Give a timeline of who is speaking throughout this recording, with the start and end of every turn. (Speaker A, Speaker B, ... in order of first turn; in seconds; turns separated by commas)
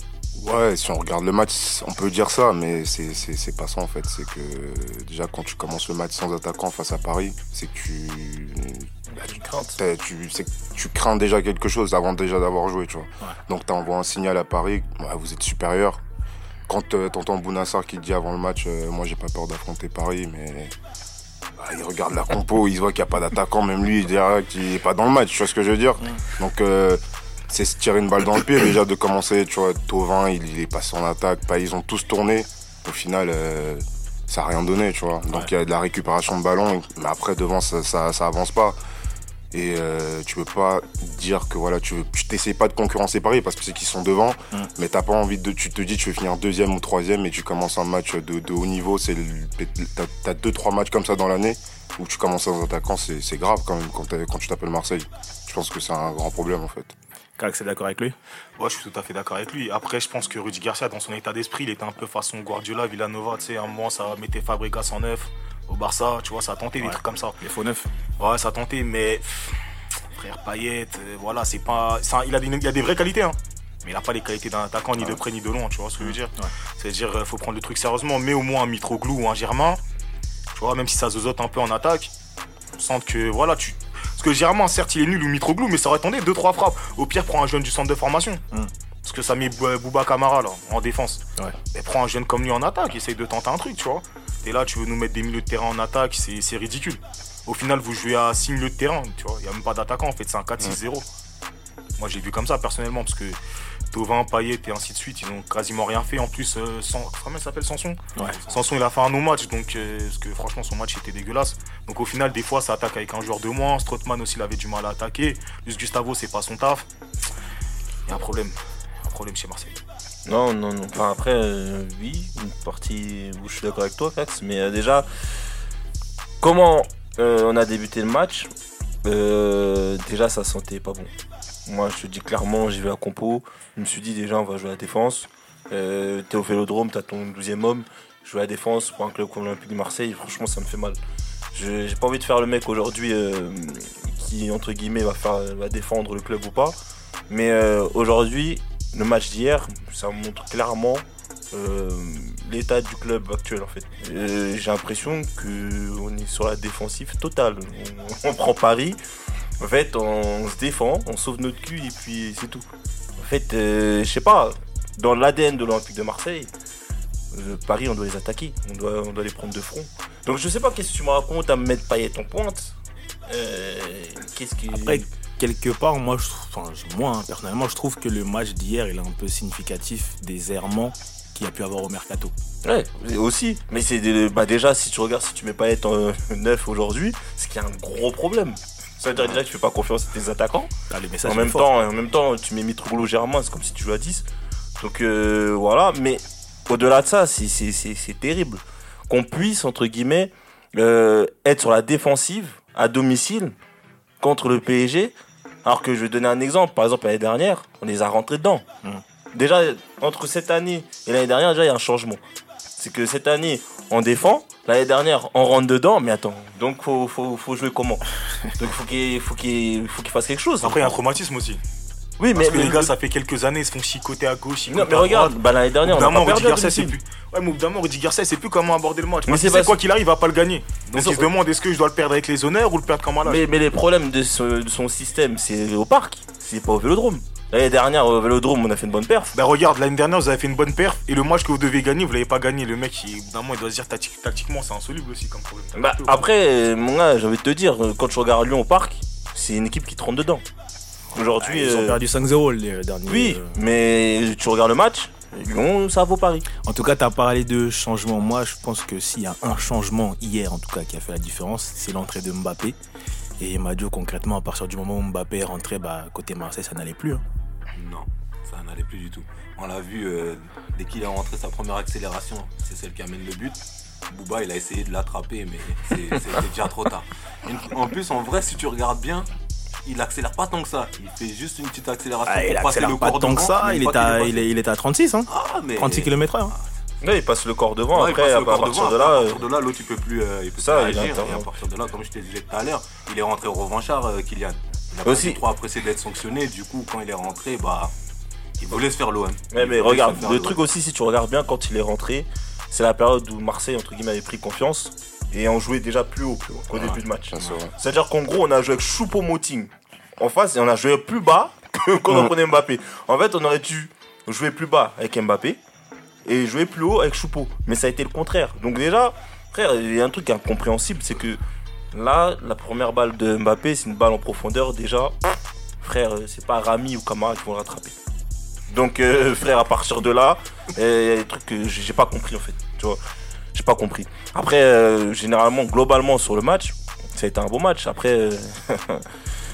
Speaker A: 0.3-16.0, Speaker B: 9.1-9.8, Speaker A: 16.7-20.7, Speaker A: 21.6-38.8, Speaker A: 39.5-56.9, Speaker C: 57.4-58.1, Speaker D: 58.6-67.4, Speaker C: 66.8-67.9, Speaker D: 68.2-69.6, Speaker D: 70.1-79.8, Speaker C: 76.0-76.5, Speaker D: 80.5-82.1, Speaker D: 82.7-88.4, Speaker D: 89.0-101.0, Speaker D: 102.0-103.4, Speaker D: 103.9-116.9, Speaker C: 108.2-108.4, Speaker D: 118.0-119.8, Speaker B: 120.2-125.1, Speaker B: 126.4-128.5, Speaker B: 129.0-131.1, Speaker B: 131.7-141.0, Speaker B: 141.5-146.8, Speaker B: 147.3-159.0, Speaker B: 159.6-162.7, Speaker B: 163.2-166.5, Speaker B: 167.3-172.7, Speaker B: 173.3-175.0, Speaker C: 174.7-182.3, Speaker B: 182.6-190.7, Speaker C: 190.9-191.7, Speaker B: 191.2-194.2, Speaker B: 194.8-203.5, Speaker B: 204.2-208.7, Speaker B: 209.3-212.2, Speaker B: 212.8-220.9, Speaker D: 220.6-221.6, Speaker B: 222.2-222.9, Speaker D: 222.3-233.4, Speaker B: 224.7-226.9, Speaker B: 229.2-229.8, Speaker B: 230.9-231.3, Speaker B: 233.2-239.3, Speaker D: 239.3-246.2, Speaker B: 245.7-250.4, Speaker B: 251.1-252.0, Speaker C: 251.4-253.6, Speaker B: 253.1-256.5, Speaker C: 256.6-262.8, Speaker C: 263.4-267.2, Speaker E: 267.7-279.3, Speaker E: 279.8-284.4, Speaker C: 282.2-286.5, Speaker E: 285.3-286.6, Speaker B: 287.0-289.4, Speaker E: 287.9-297.9, Speaker B: 290.6-291.5, Speaker B: 295.0-295.4, Speaker E: 298.6-300.6, Speaker B: 299.5-315.6, Speaker A: 306.7-307.7, Speaker B: 316.2-321.4, Speaker B: 321.9-327.9, Speaker B: 328.7-333.0, Speaker B: 333.5-339.1